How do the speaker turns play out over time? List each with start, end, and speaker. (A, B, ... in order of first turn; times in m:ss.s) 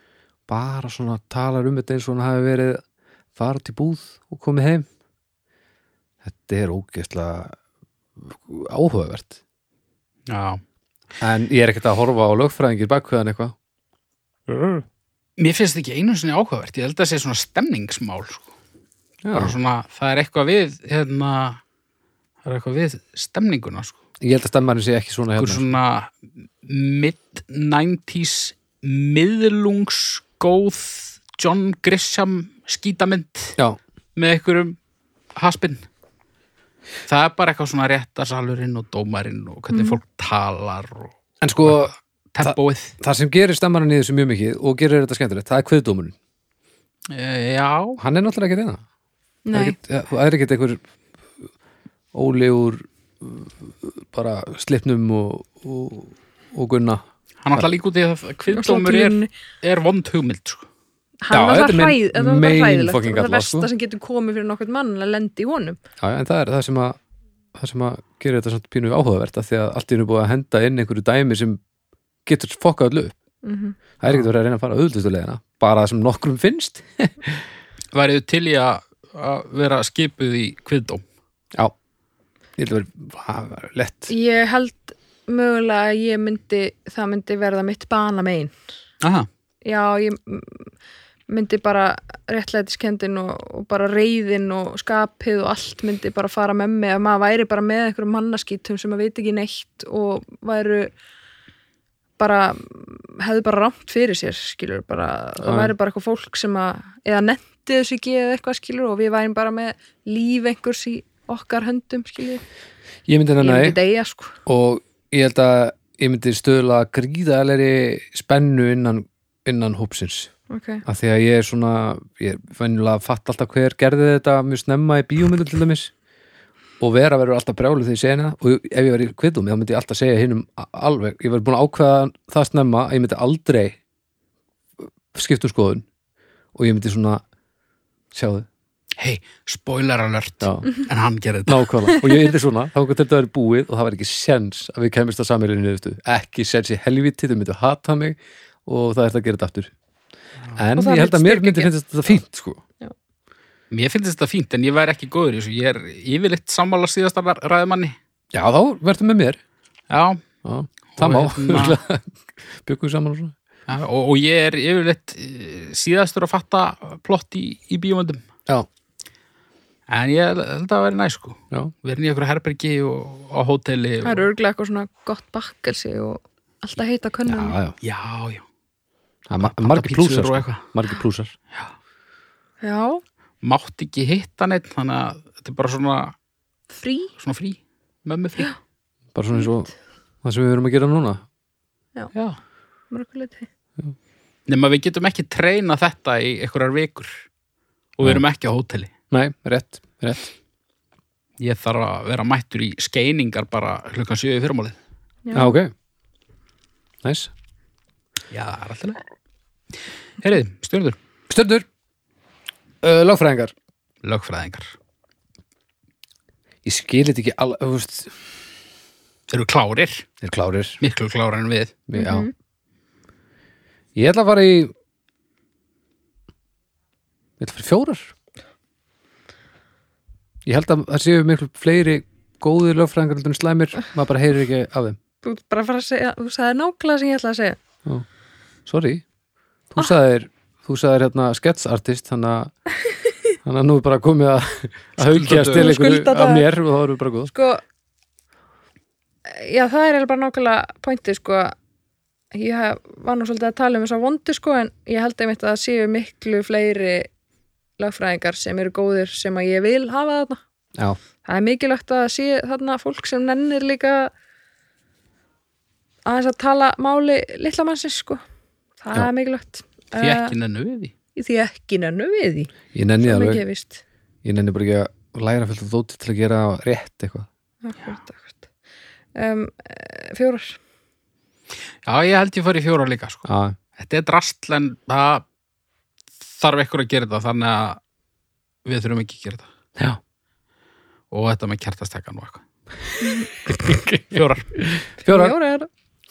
0:00.5-0:02.8 A
0:03.4-0:04.9 A
0:06.2-0:07.6 A
0:08.2-0:09.4 A
0:10.3-0:10.6 B
0:11.2-0:13.5 A
0:14.5-0:14.8 A
0:15.4-0:18.5 B
0:19.2-0:19.6 A
0:19.3-0:21.6 B
0:22.4-0:24.0 B
0:24.2-0:25.7 A
0:25.4-0:33.6 B
0:34.2-0:34.8 B
0:35.3-0:35.8 B
0:37.1-0:41.1 B
0:39.7-0:40.0 C
0:41.4-0:46.2 A
0:41.6-0:42.9 B
0:47.1-0:48.0 B
0:48.0-0:48.8 A
0:49.4-0:49.8 C
0:49.5-0:50.8 A
0:52.1-0:57.0 A
0:57.4-1:00.6 B
0:58.5-0:59.3 C
1:01.2-1:05.8 C
1:01.3-1:03.7 A
1:06.0-1:07.0 A
1:07.5-1:11.6 A
1:12.2-1:13.2 A
1:13.4-1:13.8 C
1:14.0-1:17.4 A
1:17.9-1:21.0 B
1:22.6-1:24.1 A
1:24.1-1:28.5 C
1:29.0-1:29.3 B
1:29.6-1:30.7 C
1:31.3-1:40.9 C
1:42.2-1:52.4 C
1:45.4-1:45.7 A
1:53.1-1:53.8 A
1:53.4-1:54.3 C
1:54.4-2:00.3 A
2:00.5-2:00.8 C
2:00.8-2:05.9 A
2:06.8-2:13.8 A
2:15.1-2:15.8 A
2:16.5-2:17.2 A
2:18.1-2:18.5 A
2:19.0-2:21.9 B
2:20.4-2:20.7 A
2:21.4-2:29.7 A
2:30.5-2:32.6 A
2:30.7-2:31.7 C
2:33.7-2:38.0 B
2:38.3-2:39.4 A
2:39.9-2:40.2 B
2:40.4-2:43.3 A
2:41.0-2:41.8 B
2:43.7-2:48.2 B
2:49.9-2:54.3 B
2:54.0-2:57.6 C
2:57.3-2:57.8 A
2:57.8-2:58.4 B
2:59.3-3:01.3 A
2:59.4-3:00.6 B
3:02.6-3:03.0 C
3:03.4-3:06.1 B
3:06.7-3:07.1 C
3:07.2-3:08.5 B
3:09.1-3:09.7 A
3:10.2-3:11.2 A
3:12.1-3:12.4 B
3:12.9-3:13.5 C
3:14.5-3:17.2 B
3:18.0-3:18.9 B
3:19.1-3:20.3 A
3:21.4-3:24.8 B
3:25.2-3:25.6 C
3:25.3-3:25.7 A
3:27.0-3:27.3 A
3:28.3-3:29.0 B
3:30.2-3:31.0 B
3:31.3-3:31.6 A
3:32.8-3:33.5 A
3:34.0-3:34.7 B
3:36.6-3:38.1 A
3:39.3-3:40.0 B
3:40.2-3:40.8 A
3:40.8-3:41.8 B
3:41.9-3:42.3 A
3:41.9-3:42.3 C
3:44.0-3:44.7 A
3:47.4-3:48.1 A
3:50.4-3:55.0 A
3:55.2-3:57.6 C
3:58.6-3:59.0 A
3:59.7-4:02.5 A
4:03.4-4:07.3 A
4:05.0-4:05.7 B
4:05.5-4:06.5 C
4:07.3-4:07.6 C
4:09.2-4:11.5 C
4:12.3-4:17.1 C
4:17.8-4:20.4 C
4:21.2-4:24.1 C
4:26.0-4:28.2 C
4:28.8-4:30.3 C
4:30.0-4:30.9 B
4:31.2-4:33.8 C
4:32.7-4:33.4 A
4:34.2-4:37.3 A
4:37.6-4:38.4 C
4:39.2-4:40.6 C
4:41.8-4:45.2 B
4:43.3-4:43.6 A
4:46.4-4:47.8 B
4:48.6-4:49.5 B
4:51.1-4:52.4 B
4:53.0-4:53.3 C
4:53.4-4:55.3 A
4:54.1-4:54.6 B
4:55.0-4:55.7 C